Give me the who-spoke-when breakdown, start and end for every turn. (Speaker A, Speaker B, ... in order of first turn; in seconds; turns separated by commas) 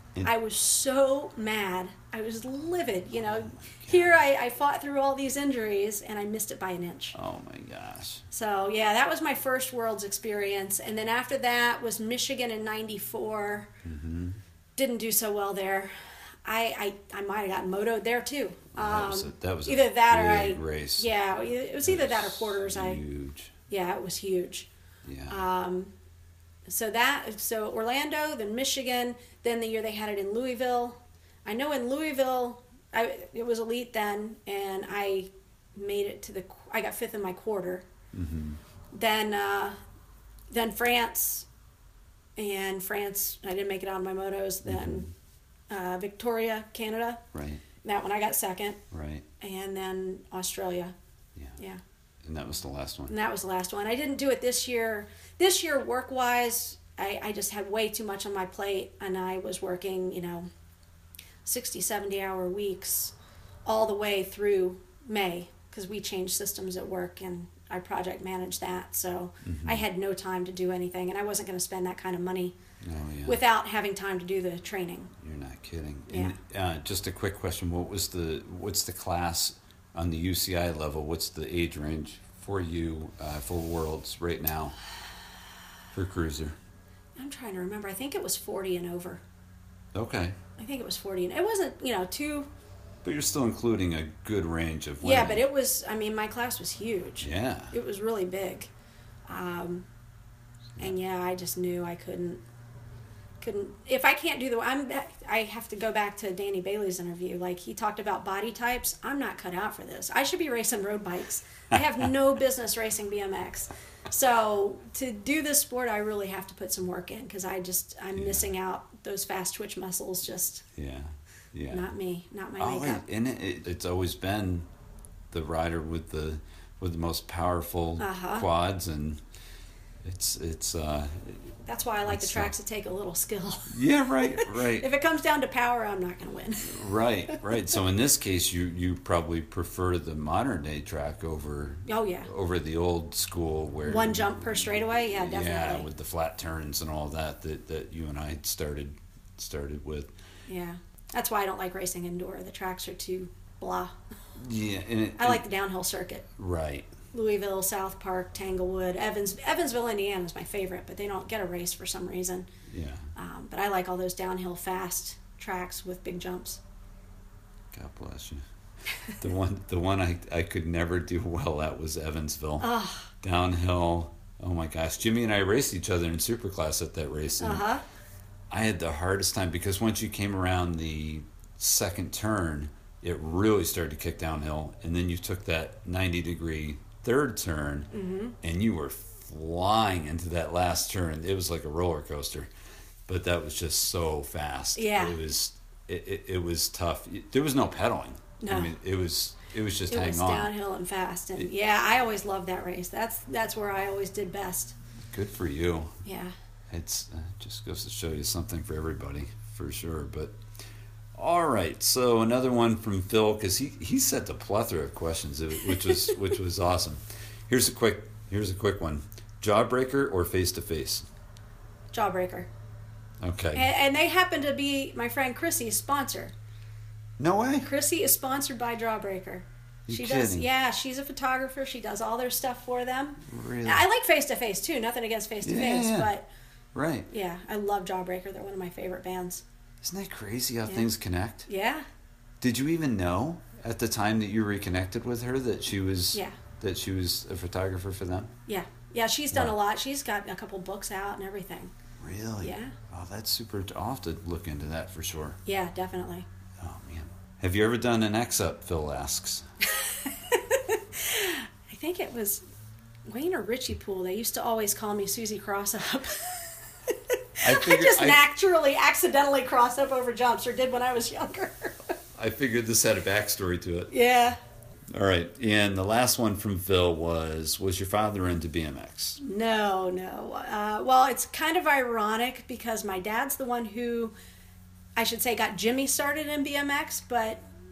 Speaker A: 0.2-7.1, Speaker B: 3.2-4.2, Speaker B: 7.1-8.2, Speaker A: 8.3-13.7, Speaker B: 13.8-14.4, Speaker A: 14.8-23.0, Speaker B: 18.7-21.1, Speaker B: 21.8-23.5, Speaker A: 23.7-24.7, Speaker B: 25.1-25.4, Speaker A: 25.3-25.9, Speaker A: 26.7-37.9, Speaker B: 38.1-38.6, Speaker A: 38.9-39.8, Speaker A: 40.5-41.5, Speaker A: 42.4-45.1, Speaker B: 44.6-45.1, Speaker A: 45.7-47.2, Speaker B: 47.3-47.6, Speaker A: 47.8-48.8, Speaker B: 48.9-49.2, Speaker A: 49.4-50.9, Speaker B: 52.2-53.1, Speaker A: 53.1-60.5, Speaker A: 61.4-63.1, Speaker A: 63.6-72.5, Speaker B: 69.4-69.8, Speaker B: 72.8-73.4, Speaker A: 73.2-75.1, Speaker B: 75.2-84.8, Speaker A: 76.1-76.4, Speaker B: 85.9-86.6, Speaker A: 87.2-89.2, Speaker B: 89.9-90.4, Speaker A: 90.6-92.5, Speaker B: 93.0-95.4, Speaker A: 95.0-98.7, Speaker B: 97.2-97.7, Speaker A: 99.3-99.8, Speaker A: 100.8-102.4, Speaker A: 103.4-120.7, Speaker B: 118.1-118.5, Speaker B: 120.8-121.9, Speaker A: 121.7-123.0, Speaker B: 122.6-124.7, Speaker B: 125.3-129.2, Speaker A: 128.0-128.4, Speaker B: 130.0-131.5, Speaker A: 131.6-136.8, Speaker B: 132.1-132.5, Speaker B: 133.7-134.9, Speaker B: 136.6-144.4, Speaker A: 141.8-142.3, Speaker A: 143.8-145.9, Speaker B: 145.1-150.1, Speaker A: 150.5-154.0, Speaker B: 154.4-155.4, Speaker A: 155.2-156.3, Speaker B: 156.4-156.9, Speaker A: 157.1-162.5, Speaker B: 162.7-163.1, Speaker A: 163.2-166.6, Speaker B: 167.7-168.4, Speaker B: 169.0-177.7, Speaker A: 172.6-173.1, Speaker A: 177.4-177.8, Speaker B: 178.5-192.5, Speaker A: 187.9-188.3, Speaker B: 193.1-200.5, Speaker A: 194.8-195.2, Speaker A: 198.4-198.7, Speaker A: 199.9-204.7, Speaker B: 205.1-205.9, Speaker A: 206.0-206.3, Speaker B: 206.7-210.4, Speaker B: 211.2-221.1, Speaker A: 221.9-222.5, Speaker B: 223.2-223.7, Speaker A: 223.5-226.3, Speaker B: 227.2-227.7, Speaker A: 227.6-236.3, Speaker B: 229.9-230.5, Speaker B: 233.2-233.8, Speaker B: 235.4-236.1, Speaker B: 236.7-237.1, Speaker A: 237.1-239.4, Speaker B: 239.8-241.5, Speaker A: 241.5-241.8, Speaker B: 242.4-248.3, Speaker A: 246.1-246.4, Speaker A: 248.5-251.7, Speaker B: 249.3-249.6, Speaker B: 252.0-255.4, Speaker A: 252.4-252.7, Speaker A: 255.4-256.2, Speaker B: 256.6-259.5, Speaker A: 259.6-262.4, Speaker A: 263.1-271.9, Speaker B: 267.4-268.2, Speaker B: 272.1-273.9, Speaker A: 273.9-274.4, Speaker B: 274.9-279.2, Speaker A: 279.2-284.1, Speaker A: 285.0-287.5